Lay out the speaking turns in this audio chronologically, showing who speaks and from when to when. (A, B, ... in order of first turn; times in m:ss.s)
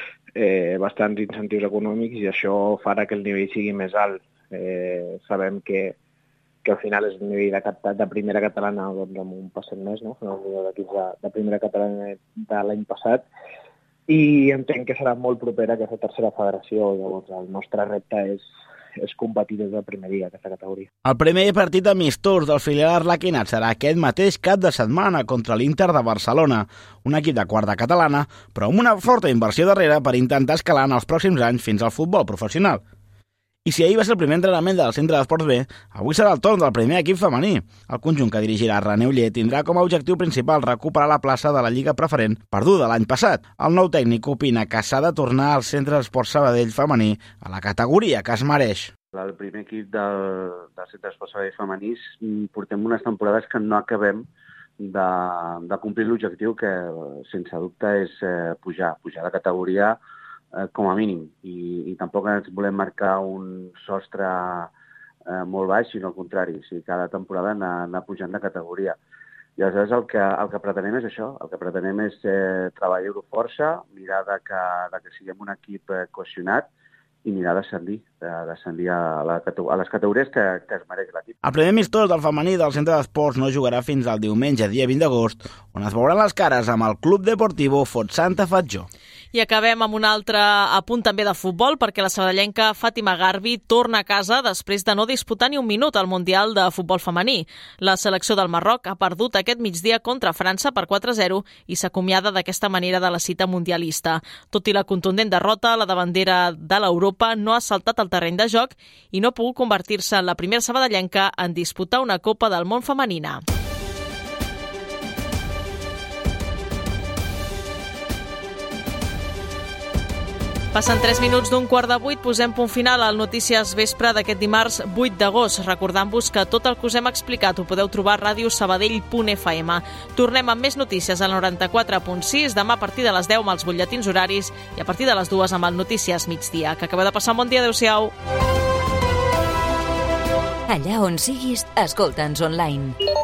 0:00.4-0:06.0 A
0:06.6-0:13.2 A
0:14.1-0:18.4 A
0:19.0-0:20.9 A
0:21.0-0:32.8 B
0:33.6-0:48.9 B
0:49.1-0:54.2 C
0:54.8-1:00.0 C
1:00.6-1:04.7 C
1:05.3-1:09.0 C
1:09.6-1:16.6 C
1:17.2-1:21.3 C
1:21.4-1:28.9 B
1:29.3-1:53.4 D
2:00.7-2:18.1 D
2:20.7-2:23.0 E